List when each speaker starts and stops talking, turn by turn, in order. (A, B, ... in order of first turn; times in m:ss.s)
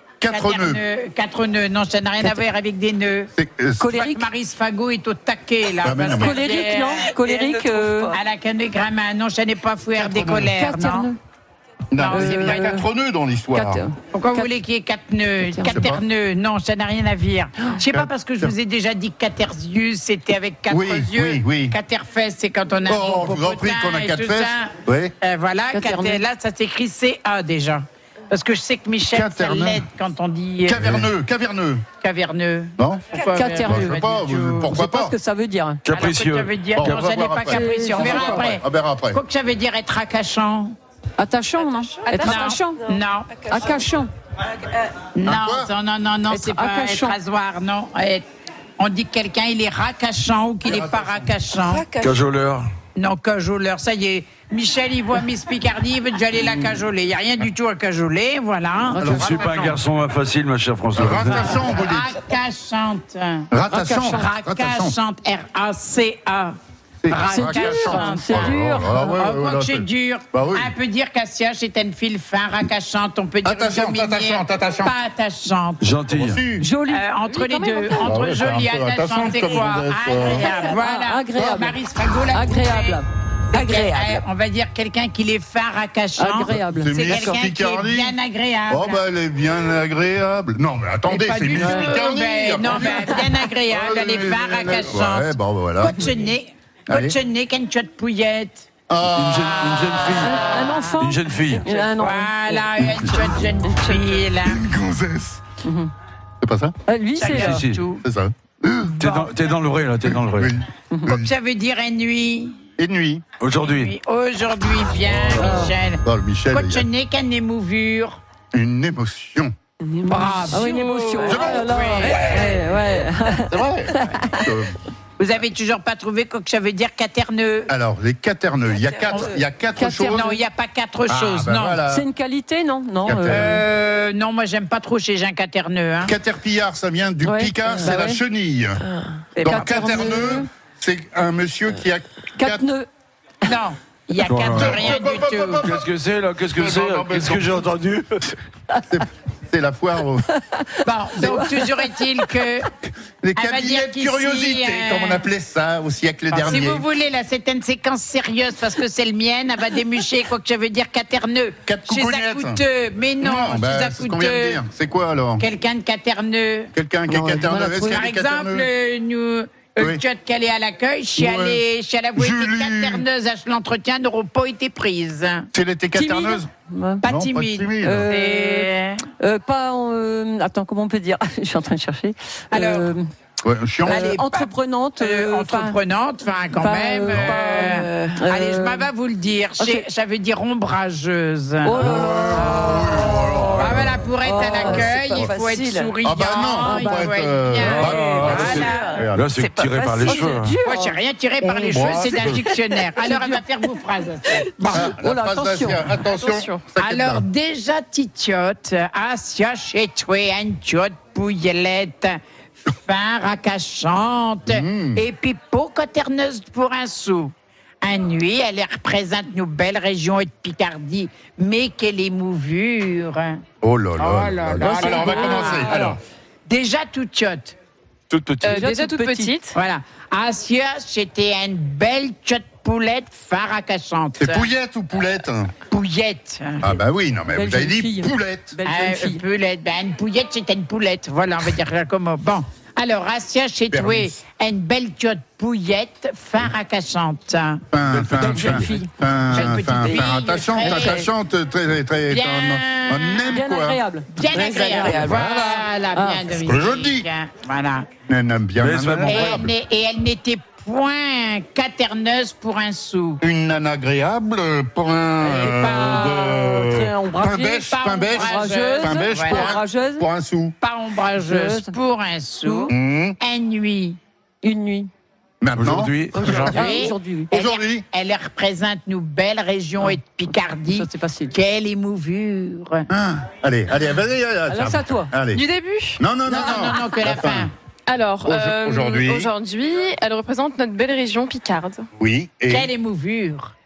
0:00.2-0:00.8 A
0:00.3-0:07.2 B
0:02.2-0:02.5 C
0:03.4-0:03.9 A
0:03.8-0:04.3 C
0:05.8-0:06.4 A
0:06.0-0:08.2 C
0:08.1-0:11.1 B
0:10.0-0:10.5 A
0:10.5-0:11.2 C
0:11.9-0:13.9 A
0:12.0-0:12.7 B
0:12.1-0:12.8 C
0:13.5-0:14.5 C
0:14.1-0:31.1 B
0:15.4-0:15.8 C
0:15.7-0:16.0 A
0:17.8-0:18.5 A
0:20.7-0:21.7 A
0:22.8-0:25.1 A
0:25.7-0:26.2 C
0:29.1-0:29.8 A
0:30.6-0:31.9 A
0:32.0-0:34.8 B
0:32.8-0:33.1 A
0:33.2-0:34.0 C
0:33.6-0:35.1 A
0:34.7-0:35.8 C
0:35.8-0:37.0 D
0:35.9-0:40.8 B
0:36.8-0:39.2 A
0:37.5-0:38.5 C
0:41.2-0:42.9 C
0:42.1-0:42.3 E
0:42.2-0:43.5 B
0:43.5-0:44.1 C
0:45.2-0:48.2 B
0:45.2-0:45.7 A
0:46.3-0:47.2 C
0:48.8-0:51.9 B
0:50.6-0:51.3 A
0:52.0-0:52.7 D
0:53.0-0:59.5 B
0:58.9-0:59.7 C
0:59.0-1:01.5 D
0:59.0-0:59.3 A
1:00.9-1:02.2 A
1:01.3-1:06.6 B
1:03.5-1:05.0 A
1:07.0-1:10.7 A
1:07.1-1:08.6 B
1:07.2-1:09.2 C
1:09.1-1:15.8 B
1:13.4-1:14.9 A
1:15.8-1:16.4 D
1:16.1-1:16.7 A
1:16.6-1:17.6 C
1:16.9-1:23.0 B
1:17.3-1:18.0 E
1:18.0-1:20.5 A
1:20.3-1:24.2 C
1:23.5-1:29.0 B
1:26.2-1:27.4 C
1:26.7-1:28.1 A
1:28.7-1:36.1 A
1:31.1-1:38.7 B
1:31.7-1:32.0 C
1:36.9-1:37.2 A
1:38.9-1:40.0 A
1:39.1-1:40.4 D
1:40.2-1:42.8 C
1:41.0-1:41.8 D
1:41.9-1:44.6 B
1:43.6-1:44.3 C
1:44.4-1:45.4 A
1:45.6-1:45.9 C
1:46.4-1:46.7 A
1:46.9-1:47.7 C
1:47.2-1:48.0 B
1:47.2-1:47.8 D
1:48.0-1:49.3 A
1:49.0-1:50.6 D
1:50.1-1:51.3 A
1:51.1-1:52.6 B
1:52.8-1:53.2 A
1:53.4-1:53.9 D
1:53.6-1:58.2 B
1:55.3-1:55.7 C
1:56.0-1:56.9 A
1:58.5-1:59.5 A
1:59.8-2:04.4 C
2:00.0-2:02.5 B
2:01.2-2:01.7 A
2:03.4-2:04.8 A
2:05.2-2:07.7 B
2:07.7-2:10.4 A
2:09.1-2:11.8 B
2:11.1-2:12.0 A
2:11.9-2:13.6 C
2:13.0-2:13.6 A
2:13.2-2:16.1 B
2:16.0-2:18.8 A
2:17.2-2:18.2 C
2:19.3-2:20.5 C
2:19.4-2:22.6 A
2:22.4-2:22.9 C
2:23.4-2:25.7 B
2:24.2-2:24.9 D
2:24.5-2:25.9 A
2:25.6-2:28.4 D
2:26.5-2:27.8 A
2:28.9-2:30.2 A
2:30.8-2:32.7 B
2:31.2-2:31.7 C
2:33.2-2:36.8 A
2:33.4-2:35.2 B
2:36.3-2:44.6 B
2:41.6-2:42.6 A
2:43.2-2:45.4 A
2:45.4-2:46.7 B
2:46.7-2:48.7 A
2:47.3-2:48.0 C
2:47.3-2:55.5 B
2:51.2-2:51.6 A
2:52.2-2:53.0 A
2:55.5-2:56.5 A
2:55.9-2:57.1 C
2:57.0-2:59.0 B
2:57.0-2:58.1 A
2:57.8-3:03.1 C
3:02.5-3:02.9 B
3:03.4-3:04.1 A
3:03.8-3:19.0 B
3:03.9-3:05.8 C
3:06.5-3:08.9 C
3:09.6-3:09.9 C
3:11.6-3:13.6 C
3:11.8-3:14.0 A
3:14.2-3:16.0 C
3:16.0-3:19.3 A
3:16.5-3:21.0 C
3:17.6-3:20.6 D
3:20.0-3:24.9 B
3:21.4-3:22.5 A
3:22.5-3:23.4 C
3:24.6-3:26.0 C
3:24.7-3:27.2 A
3:26.1-3:26.6 E
3:26.8-3:43.4 B
3:34.5-3:35.0 A
3:43.6-3:46.0 A
3:44.0-3:47.6 B
3:44.8-3:45.8 C
3:48.1-3:48.7 D
3:48.4-3:49.6 E
3:48.4-3:49.4 C
3:49.5-3:54.5 B
3:54.2-3:55.5 A
3:55.7-3:56.7 B
3:56.6-3:58.5 A
3:57.3-3:59.2 C
3:58.6-4:07.6 B
4:03.7-4:04.2 A
4:07.7-4:13.8 A
4:07.9-4:08.7 D
4:08.3-4:08.6 B
4:08.6-4:08.9 C
4:09.3-4:11.1 B
4:09.6-4:10.1 C
4:12.1-4:13.4 B
4:13.3-4:16.4 C
4:14.1-4:17.9 B
4:14.7-4:15.6 A
4:16.3-4:17.1 A
4:18.1-4:19.5 A
4:18.6-4:19.4 D
4:19.0-4:23.2 B
4:23.2-4:30.6 A
4:25.2-4:30.0 C
4:25.3-4:26.6 B
4:27.1-4:29.7 B
4:30.6-4:34.0 B
4:31.1-4:31.8 C
4:32.4-4:32.7 C
4:32.7-4:33.2 A
4:34.4-4:34.9 C
4:35.4-4:36.4 A
4:35.6-4:36.7 D
4:36.1-4:37.3 C
4:36.2-4:42.9 B
4:37.3-4:37.8 A
4:40.6-4:41.3 C
4:42.9-4:45.4 A
4:44.5-4:45.1 C
4:45.3-4:46.0 E
4:46.0-4:47.5 A
4:46.3-4:47.5 B
4:47.9-4:51.9 E
4:48.2-4:49.3 A
4:52.0-4:52.7 A
4:52.5-4:53.5 B